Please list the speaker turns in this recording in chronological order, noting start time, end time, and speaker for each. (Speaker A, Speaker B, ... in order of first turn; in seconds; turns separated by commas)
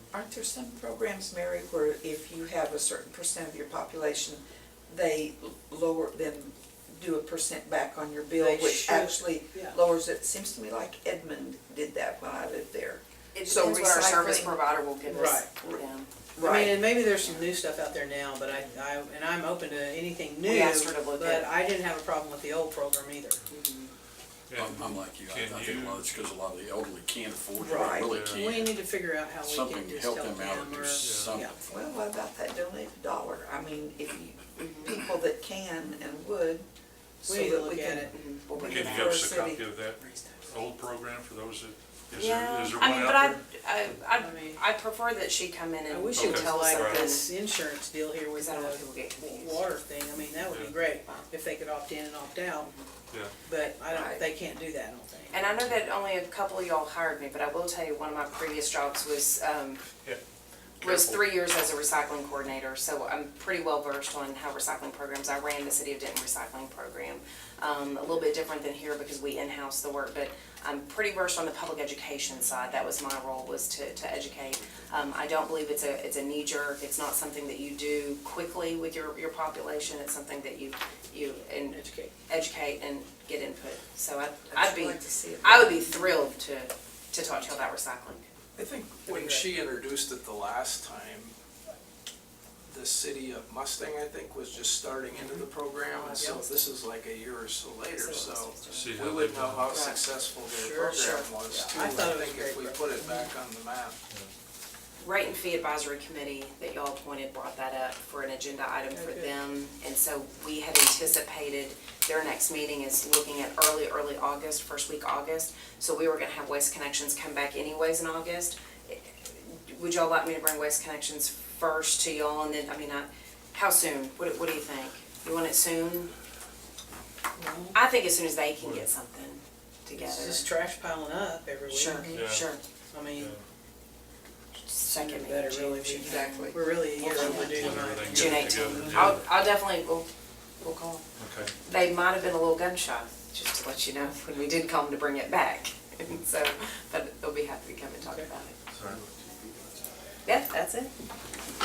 Speaker A: 0.1-14.6, Speaker B: 8.4-9.8, Speaker C: 13.3-17.5, Speaker B: 15.1-15.5, Speaker A: 16.4-16.7, Speaker B: 16.4-23.4, Speaker C: 20.4-21.5, Speaker C: 23.5-23.9, Speaker D: 24.5-26.1, Speaker E: 24.5-28.9, Speaker A: 27.6-28.2, Speaker B: 27.7-31.6, Speaker D: 28.0-28.5, Speaker E: 29.4-31.6, Speaker D: 31.0-31.3, Speaker A: 31.6-36.7, Speaker C: 34.6-34.9, Speaker A: 37.2-40.4, Speaker B: 37.2-38.1, Speaker C: 38.0-39.1, Speaker D: 38.6-43.4, Speaker C: 42.1-47.3, Speaker B: 44.2-44.6, Speaker B: 45.9-52.7, Speaker D: 46.1-47.1, Speaker C: 48.3-49.7, Speaker C: 52.6-52.9, Speaker B: 53.4-55.4, Speaker C: 53.9-54.2, Speaker C: 55.3-59.8, Speaker D: 60.8-61.2, Speaker C: 60.8-88.2, Speaker B: 81.7-82.1, Speaker A: 84.5-86.2, Speaker F: 88.5-91.3, Speaker B: 89.0-89.5, Speaker F: 92.7-104.0, Speaker C: 95.2-96.7, Speaker C: 98.0-99.0, Speaker D: 98.6-99.7, Speaker C: 99.7-100.0, Speaker B: 100.5-103.3, Speaker C: 100.9-101.3, Speaker C: 105.0-126.1, Speaker B: 108.9-109.5, Speaker B: 127.4-127.7, Speaker C: 127.7-130.4, Speaker D: 128.6-128.8, Speaker B: 130.0-132.1, Speaker C: 131.7-132.6, Speaker D: 132.1-132.4, Speaker B: 132.9-133.3, Speaker D: 133.2-133.4, Speaker C: 134.7-140.1, Speaker B: 134.8-139.1, Speaker D: 137.2-139.3, Speaker C: 140.6-141.0, Speaker D: 141.2-141.5, Speaker C: 141.6-148.6, Speaker C: 150.2-150.9